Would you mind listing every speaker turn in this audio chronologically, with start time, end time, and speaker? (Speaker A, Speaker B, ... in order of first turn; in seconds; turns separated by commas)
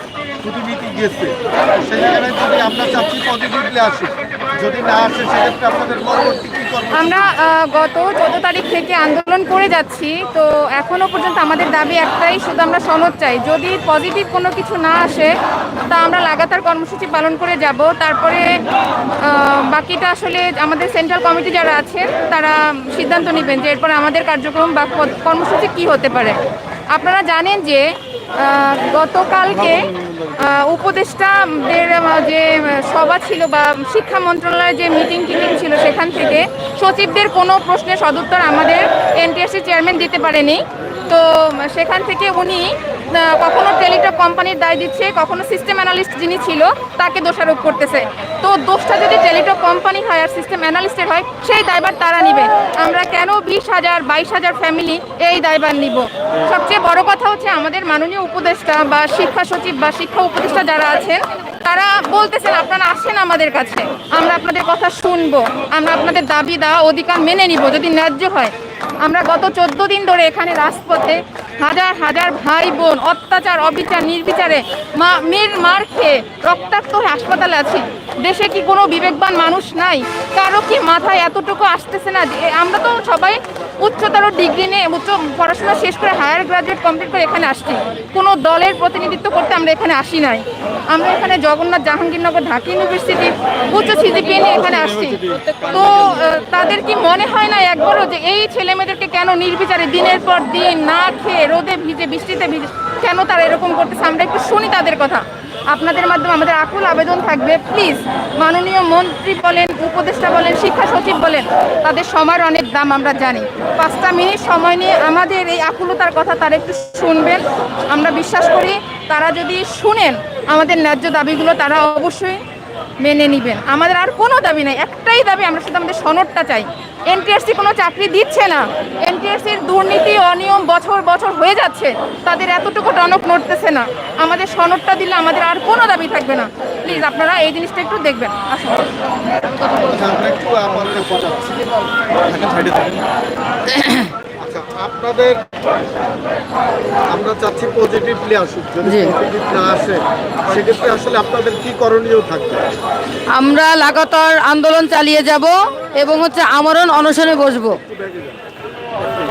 Speaker A: 0.4-7.2, Speaker B: 6.9-15.3, Speaker B: 15.9-18.6, Speaker B: 19.2-26.4, Speaker B: 26.9-122.4, Speaker B: 123.0-138.8, Speaker A: 139.8-141.6, Speaker C: 143.7-144.1, Speaker A: 144.4-145.4, Speaker A: 147.1-152.6, Speaker C: 148.8-149.2, Speaker C: 153.3-157.8, Speaker A: 157.9-158.4